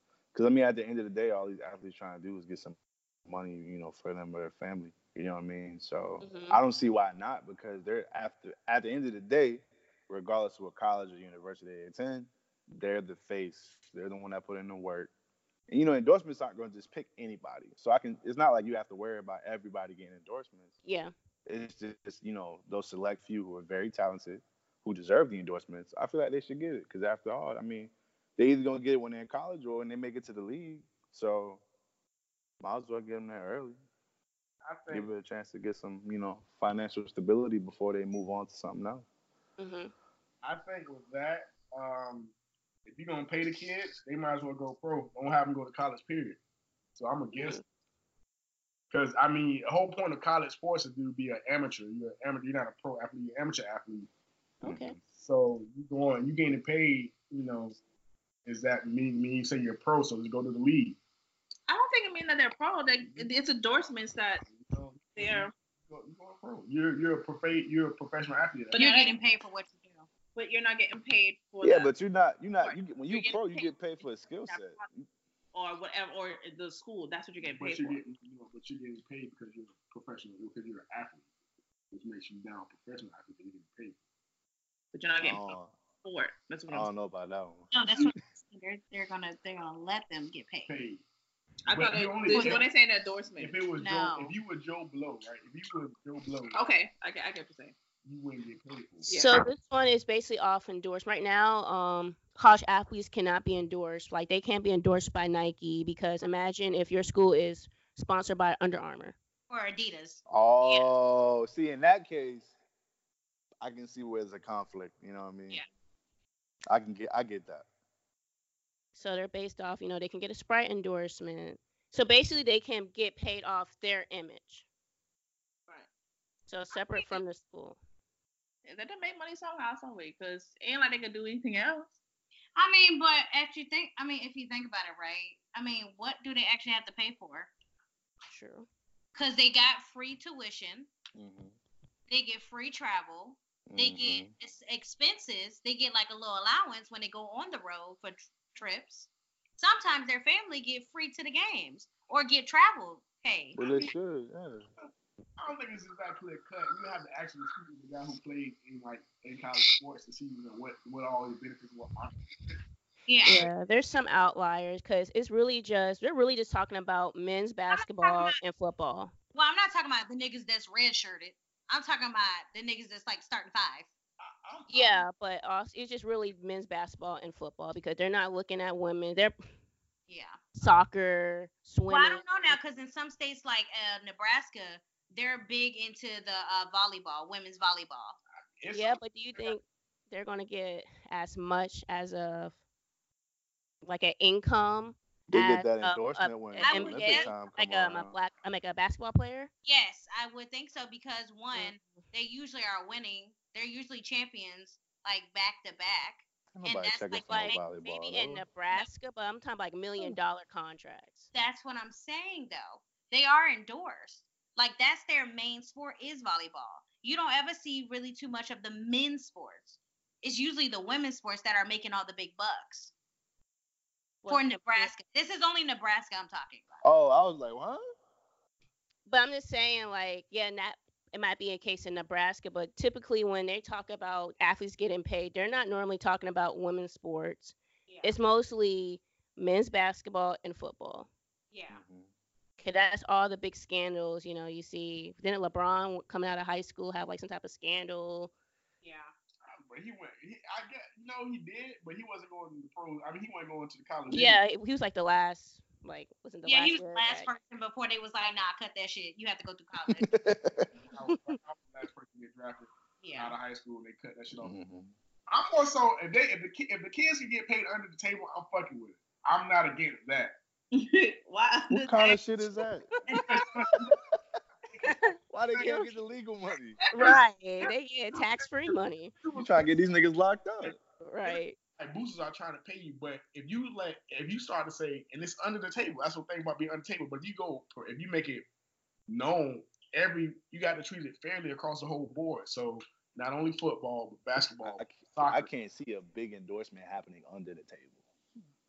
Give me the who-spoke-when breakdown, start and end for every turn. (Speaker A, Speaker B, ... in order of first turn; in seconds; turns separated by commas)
Speaker A: 0.3-15.1, Speaker B: 6.2-6.6, Speaker A: 15.7-20.7, Speaker B: 20.8-21.1, Speaker A: 21.4-31.6, Speaker A: 32.6-33.8, Speaker C: 34.6-35.1, Speaker A: 34.9-39.0, Speaker B: 39.6-39.9, Speaker C: 40.4-42.3, Speaker C: 42.9-46.4, Speaker C: 47.0-47.6, Speaker B: 47.4-47.6, Speaker C: 48.9-54.1, Speaker B: 54.6-55.0, Speaker A: 54.6-55.0, Speaker C: 55.1-57.8, Speaker C: 58.5-61.0, Speaker D: 61.7-64.4, Speaker C: 63.0-63.3, Speaker C: 64.4-68.9, Speaker D: 65.2-65.5, Speaker D: 68.7-69.2, Speaker E: 68.7-70.1, Speaker D: 70.3-71.9, Speaker A: 71.6-75.0, Speaker D: 72.6-73.9, Speaker D: 74.4-74.8, Speaker D: 75.5-78.0, Speaker C: 77.4-81.3, Speaker C: 81.9-84.0, Speaker D: 84.9-86.9, Speaker A: 85.2-85.7, Speaker A: 86.7-87.7, Speaker E: 87.7-90.7, Speaker C: 90.7-91.0, Speaker D: 91.7-93.6, Speaker C: 91.7-92.7, Speaker E: 92.3-92.6, Speaker C: 93.4-96.6, Speaker E: 93.8-94.3, Speaker D: 96.5-97.7, Speaker C: 98.0-99.1, Speaker D: 99.1-99.3, Speaker B: 99.1-109.2, Speaker E: 109.5-110.2, Speaker A: 110.3-112.5, Speaker A: 113.6-115.6, Speaker A: 116.7-117.7, Speaker B: 119.0-124.6, Speaker B: 126.5-127.8, Speaker E: 126.8-127.2, Speaker D: 128.6-131.9, Speaker E: 132.6-137.5, Speaker B: 138.3-138.7, Speaker E: 139.1-140.9, Speaker A: 141.1-141.5, Speaker E: 142.1-153.6, Speaker A: 143.7-144.3, Speaker A: 153.6-154.7, Speaker C: 153.6-153.9, Speaker C: 155.4-162.6, Speaker E: 163.1-163.5, Speaker B: 163.2-169.1, Speaker E: 167.7-168.3, Speaker E: 169.3-173.9, Speaker C: 174.2-175.1, Speaker B: 174.7-179.4, Speaker E: 180.1-180.4, Speaker B: 180.6-182.6, Speaker E: 181.9-188.2, Speaker C: 188.6-189.5, Speaker B: 188.7-192.6, Speaker B: 193.8-199.5, Speaker A: 195.3-198.1, Speaker E: 196.6-197.3, Speaker E: 199.6-207.6, Speaker B: 201.5-201.9, Speaker A: 206.5-208.4, Speaker B: 207.3-211.3, Speaker E: 211.3-222.9, Speaker B: 224.2-224.9, Speaker E: 224.3-226.8, Speaker A: 226.8-227.8, Speaker B: 229.1-241.1, Speaker E: 237.9-238.2, Speaker E: 241.5-241.8, Speaker A: 241.7-242.1, Speaker B: 242.6-248.3, Speaker E: 248.8-249.1, Speaker C: 249.5-254.4, Speaker B: 254.1-257.3, Speaker E: 256.4-260.1, Speaker A: 260.0-260.7, Speaker C: 260.7-264.5, Speaker B: 261.1-261.3, Speaker E: 263.0-263.4, Speaker A: 264.4-264.9, Speaker C: 265.3-270.3, Speaker D: 270.7-272.2, Speaker A: 271.7-272.9, Speaker C: 273.1-274.0, Speaker C: 274.7-275.0, Speaker B: 274.8-275.1, Speaker A: 275.3-276.8, Speaker B: 276.9-279.1, Speaker C: 276.9-279.7, Speaker A: 279.3-280.8, Speaker C: 280.7-288.4, Speaker B: 281.0-281.6, Speaker C: 289.1-295.5, Speaker A: 294.6-298.0